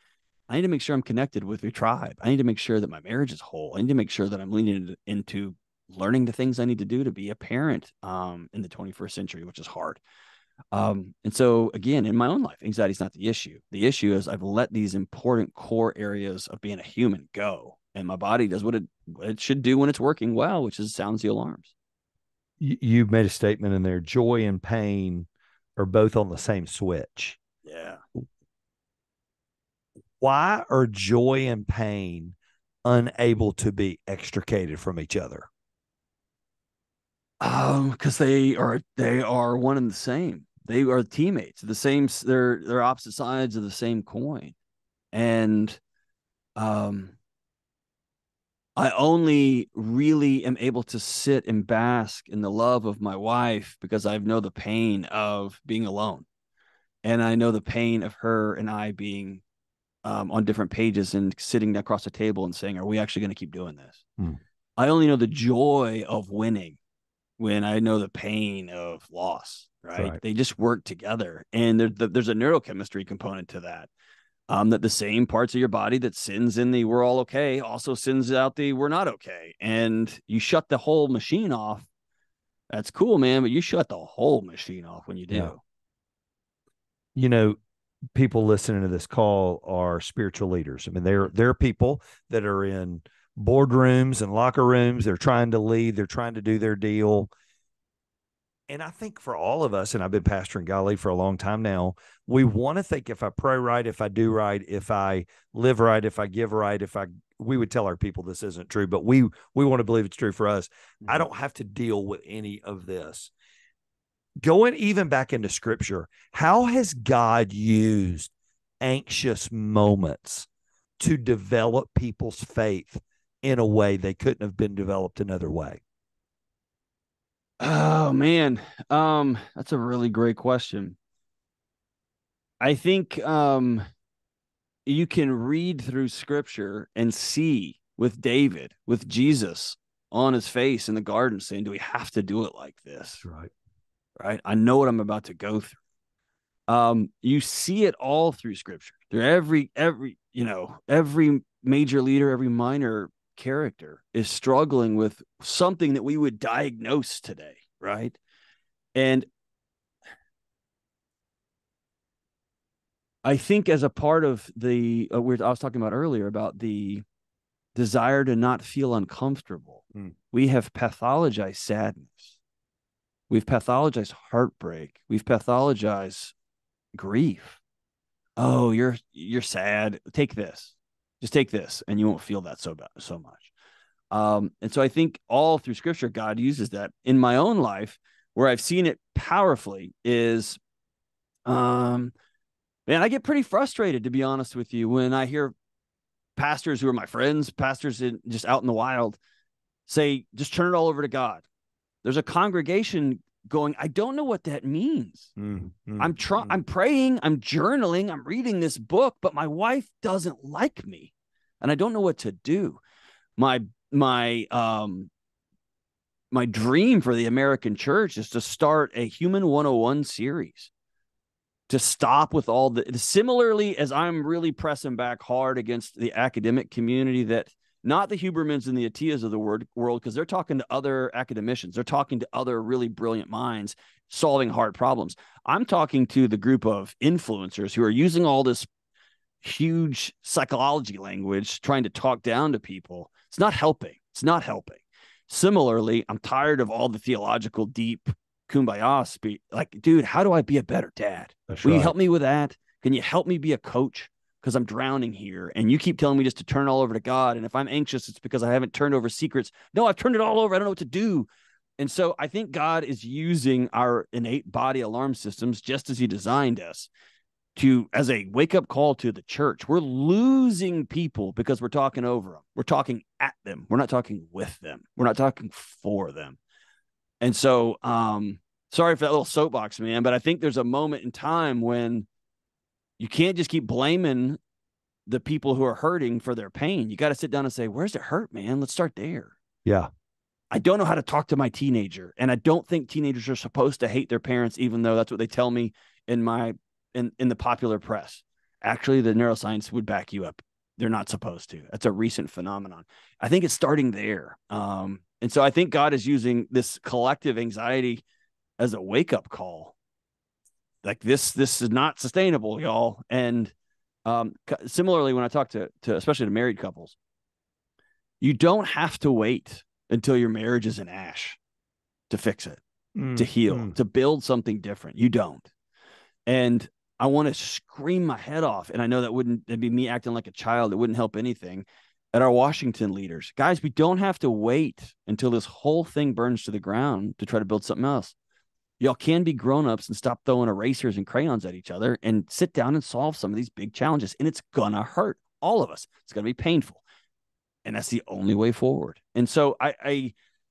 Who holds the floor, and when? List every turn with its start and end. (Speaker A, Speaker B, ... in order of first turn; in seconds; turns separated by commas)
Speaker A: 0.5-10.0, Speaker A: 10.7-21.7, Speaker B: 22.6-27.4, Speaker A: 27.6-28.0, Speaker B: 30.2-35.5, Speaker A: 37.4-44.5, Speaker A: 45.1-45.8, Speaker A: 46.6-47.2, Speaker A: 48.8-56.2, Speaker A: 57.0-59.4, Speaker A: 60.0-64.0, Speaker A: 64.8-66.8, Speaker A: 67.4-73.9, Speaker A: 74.5-81.9, Speaker A: 82.7-85.6, Speaker B: 87.2-87.6, Speaker B: 88.1-97.3, Speaker B: 98.7-113.3, Speaker B: 114.4-120.5, Speaker B: 121.0-125.8, Speaker A: 127.6-131.0, Speaker A: 132.6-133.8, Speaker A: 134.9-143.2, Speaker B: 143.2-143.5, Speaker A: 144.2-145.8, Speaker A: 146.7-158.2, Speaker A: 159.0-159.3, Speaker A: 163.2-167.0, Speaker A: 167.8-172.4, Speaker A: 173.3-176.3, Speaker A: 176.9-177.6, Speaker A: 178.4-183.5, Speaker A: 184.1-190.6, Speaker A: 191.5-192.1, Speaker A: 192.9-195.6, Speaker A: 196.4-199.2, Speaker A: 199.9-201.4, Speaker A: 202.0-205.3, Speaker B: 205.4-206.6, Speaker A: 206.0-212.8, Speaker A: 213.4-215.1, Speaker A: 216.3-220.7, Speaker A: 221.7-238.7, Speaker A: 239.4-266.9, Speaker B: 251.5-251.9, Speaker A: 267.6-276.4, Speaker A: 277.2-282.1, Speaker A: 283.0-284.4, Speaker A: 285.1-289.4, Speaker B: 289.6-289.9, Speaker A: 290.5-308.0, Speaker A: 308.6-309.7, Speaker A: 310.8-313.5, Speaker A: 314.1-317.0, Speaker A: 318.2-321.4, Speaker A: 322.1-322.6, Speaker B: 323.0-323.7, Speaker A: 323.1-325.5, Speaker A: 326.3-338.1, Speaker A: 338.8-346.8, Speaker A: 347.6-350.1